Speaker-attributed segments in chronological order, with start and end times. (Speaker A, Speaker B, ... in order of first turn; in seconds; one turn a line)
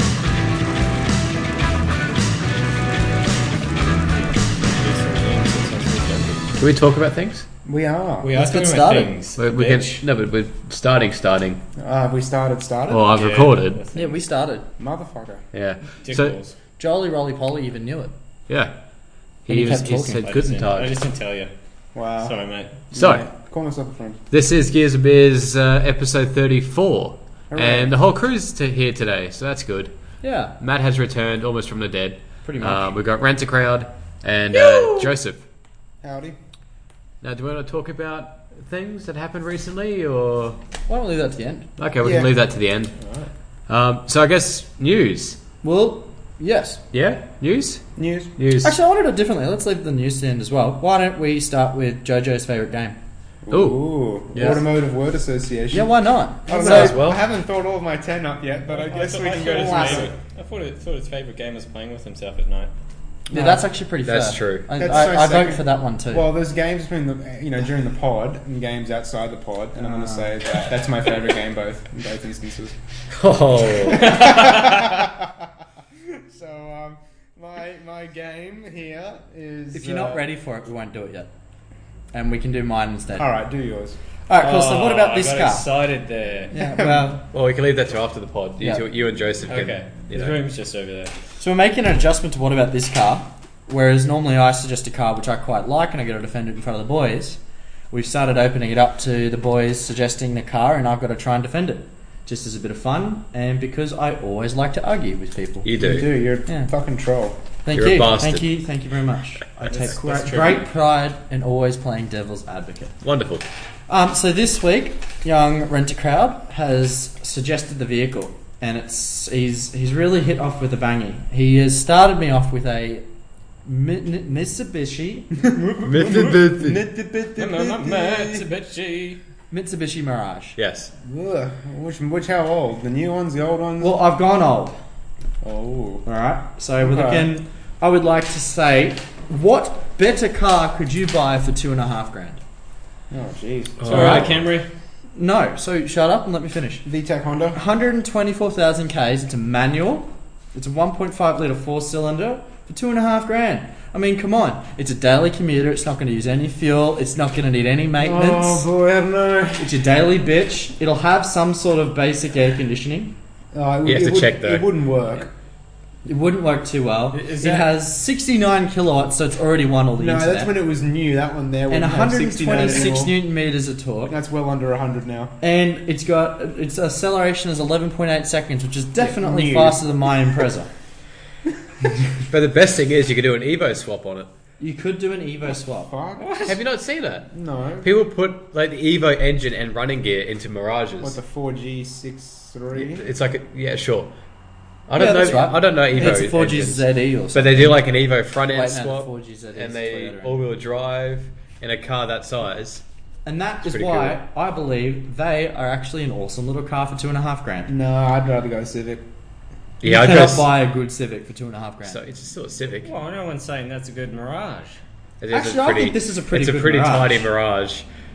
Speaker A: 4.6-6.5
Speaker B: 6.6-7.5
Speaker C: 7.7-8.3
Speaker A: 8.2-10.0
Speaker D: 8.3-9.1
Speaker B: 9.4-11.6
Speaker C: 11.8-13.1
Speaker B: 12.9-13.8
Speaker A: 13.1-14.2
Speaker D: 13.9-14.7
Speaker C: 14.8-15.4
Speaker B: 15.5-16.4
Speaker A: 16.0-16.5
Speaker D: 16.8-18.1
Speaker B: 18.5-18.8
Speaker B: 19.4-20.9
Speaker D: 19.5-20.2
Speaker A: 20.1-21.5
Speaker C: 21.9-24.2
Speaker A: 22.1-22.7
Speaker B: 22.9-23.2
Speaker B: 24.3-29.9
Speaker C: 27.5-27.9
Speaker D: 30.2-30.5
Speaker B: 30.6-35.4
Speaker D: 32.4-32.9
Speaker C: 36.0-36.4
Speaker B: 37.2-40.6
Speaker D: 40.9-41.7
Speaker B: 41.8-43.0
Speaker C: 42.0-42.3
Speaker A: 43.0-43.3
Speaker B: 43.7-45.4
Speaker D: 45.6-46.8
Speaker B: 46.9-48.8
Speaker C: 48.0-48.3
Speaker D: 48.6-53.0
Speaker C: 53.4-60.1
Speaker B: 53.5-54.7
Speaker D: 54.4-54.6
Speaker D: 55.7-57.0
Speaker B: 56.5-57.2
Speaker A: 58.7-62.7
Speaker D: 59.4-60.1
Speaker C: 63.3-63.6
Speaker D: 63.3-66.3
Speaker B: 64.0-65.0
Speaker C: 64.7-72.8
Speaker D: 69.8-70.2
Speaker B: 73.1-74.6
Speaker C: 73.8-75.2
Speaker C: 76.1-80.2
Speaker D: 79.7-81.3
Speaker D: 82.1-83.3
Speaker C: 83.2-84.0
Speaker D: 84.3-85.7
Speaker A: 84.4-86.7
Speaker D: 86.5-87.2
Speaker B: 87.3-90.4
Speaker A: 89.5-91.1
Speaker D: 91.4-97.4
Speaker D: 97.9-105.7
Speaker B: 105.6-106.2
Speaker C: 105.8-107.4
Speaker D: 107.6-113.0
Speaker B: 107.7-108.5
Speaker A: 109.6-110.7
Speaker B: 113.0-113.4
Speaker D: 113.9-123.0
Speaker D: 123.6-125.6
Speaker C: 125.5-128.4
Speaker B: 125.8-126.8
Speaker A: 127.3-129.2
Speaker D: 129.5-130.6
Speaker B: 130.6-130.9
Speaker C: 131.0-134.0
Speaker D: 133.8-134.8
Speaker C: 135.4-136.0
Speaker D: 136.0-142.4
Speaker C: 136.8-137.3
Speaker C: 143.1-144.2
Speaker B: 143.8-144.4
Speaker A: 143.8-144.7
Speaker D: 143.9-144.3
Speaker D: 145.1-146.9
Speaker C: 146.8-147.6
Speaker D: 147.5-158.7
Speaker C: 158.0-159.7
Speaker D: 159.6-163.1
Speaker C: 163.5-165.3
Speaker B: 163.8-164.7
Speaker D: 166.1-170.5
Speaker A: 167.1-167.7
Speaker C: 170.0-173.2
Speaker D: 171.7-174.1
Speaker C: 174.1-175.4
Speaker D: 175.4-180.7
Speaker C: 179.0-179.8
Speaker B: 182.3-184.3
Speaker D: 184.6-185.9
Speaker C: 185.9-186.5
Speaker A: 186.2-186.6
Speaker B: 186.4-187.3
Speaker C: 187.3-187.9
Speaker B: 187.8-191.2
Speaker C: 191.0-193.1
Speaker B: 192.7-194.1
Speaker B: 194.9-202.8
Speaker D: 194.9-197.8
Speaker D: 198.5-200.4
Speaker D: 203.2-207.7
Speaker B: 203.6-204.2
Speaker C: 207.7-209.0
Speaker B: 209.8-210.5
Speaker D: 209.8-212.0
Speaker B: 211.8-212.9
Speaker A: 212.8-214.8
Speaker B: 215.2-217.8
Speaker D: 215.3-217.3